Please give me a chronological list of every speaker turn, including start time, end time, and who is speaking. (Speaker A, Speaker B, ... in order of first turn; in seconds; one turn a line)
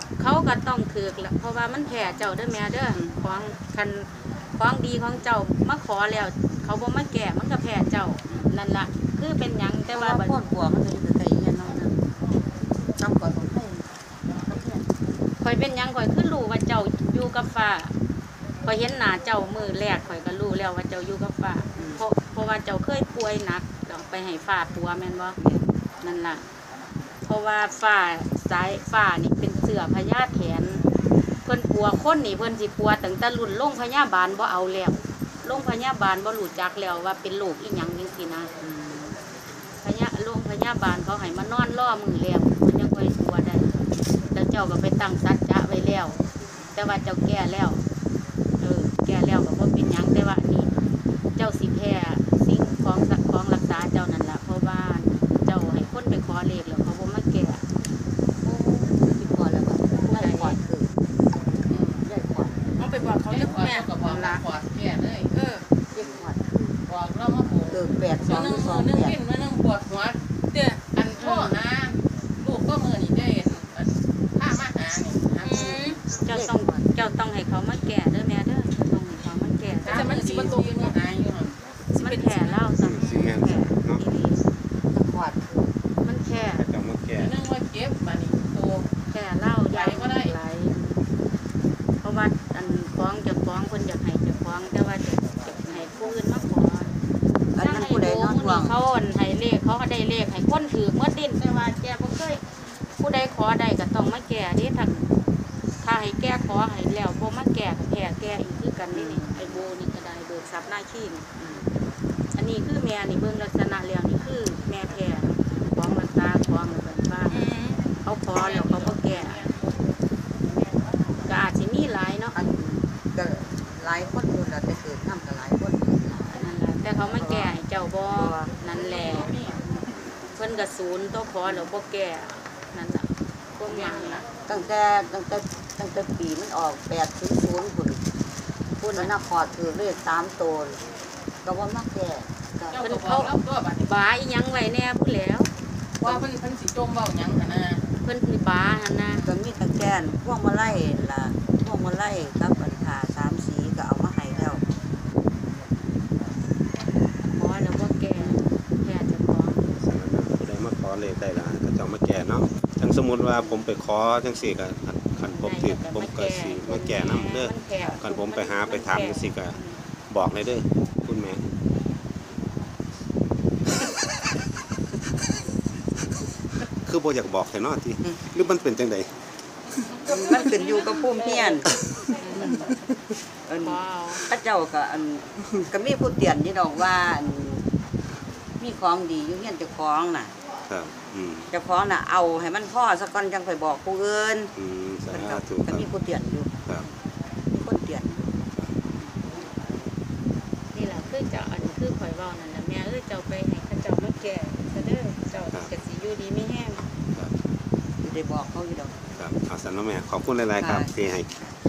Speaker A: 0.2-10.4
Speaker B: 9.9-12.0
Speaker B: 13.0-14.9
Speaker A: 15.4-17.9
Speaker A: 18.6-25.4
Speaker B: 21.8-22.0
Speaker B: 25.4-25.7
Speaker A: 26.0-26.4
Speaker A: 27.2-30.8
Speaker A: 31.4-38.5
Speaker B: 38.6-39.2
Speaker A: 39.8-43.7
Speaker A: 44.3-46.2
Speaker A: 46.8-47.8
Speaker A: 48.6-50.7
Speaker A: 51.4-57.6
Speaker B: 58.4-60.9
Speaker A: 60.1-60.6
Speaker C: 61.7-62.0
Speaker B: 61.7-62.6
Speaker D: 62.8-64.2
Speaker C: 63.3-65.3
Speaker A: 64.0-64.4
Speaker D: 65.3-65.7
Speaker B: 66.0-66.7
Speaker C: 66.9-70.2
Speaker B: 67.7-69.2
Speaker C: 70.9-76.0
Speaker A: 71.2-71.6
Speaker D: 75.4-76.0
Speaker A: 76.2-80.5
Speaker B: 76.3-76.8
Speaker C: 79.8-81.5
Speaker D: 79.9-81.0
Speaker D: 81.9-83.3
Speaker A: 82.0-84.5
Speaker E: 82.8-84.0
Speaker B: 84.9-85.7
Speaker A: 86.0-86.7
Speaker E: 86.4-87.4
Speaker C: 87.2-88.9
Speaker A: 89.1-91.0
Speaker C: 89.7-90.3
Speaker A: 92.0-96.9
Speaker B: 97.5-98.8
Speaker A: 97.6-101.4
Speaker B: 101.4-102.4
Speaker A: 103.0-105.1
Speaker A: 105.8-111.2
Speaker B: 108.9-109.7
Speaker B: 111.4-111.7
Speaker A: 112.3-117.5
Speaker D: 117.3-117.8
Speaker A: 118.0-119.5
Speaker C: 118.3-119.7
Speaker A: 121.2-122.4
Speaker B: 122.3-126.5
Speaker A: 126.3-129.3
Speaker B: 127.0-128.5
Speaker C: 128.7-129.5
Speaker A: 130.4-134.2
Speaker B: 131.4-131.7
Speaker C: 133.7-134.2
Speaker B: 134.5-138.0
Speaker A: 138.8-139.1
Speaker B: 138.9-140.8
Speaker B: 141.4-142.8
Speaker C: 142.7-143.9
Speaker A: 142.8-145.5
Speaker C: 146.0-147.8
Speaker B: 146.0-146.3
Speaker A: 148.0-149.3
Speaker B: 149.2-154.6
Speaker A: 157.3-159.6
Speaker B: 158.2-158.5
Speaker E: 159.8-169.6
Speaker A: 165.3-169.8
Speaker E: 170.1-171.4
Speaker E: 176.9-179.1
Speaker B: 180.1-181.7
Speaker A: 182.2-182.5
Speaker B: 182.3-182.7
Speaker B: 183.5-187.7
Speaker A: 183.6-184.3
Speaker B: 188.6-190.3
Speaker E: 190.7-191.5
Speaker B: 191.5-194.5
Speaker E: 194.6-195.9
Speaker B: 195.1-196.5
Speaker B: 197.5-198.3
Speaker A: 200.7-206.8
Speaker B: 208.0-209.0
Speaker E: 209.2-211.3
Speaker B: 210.6-210.9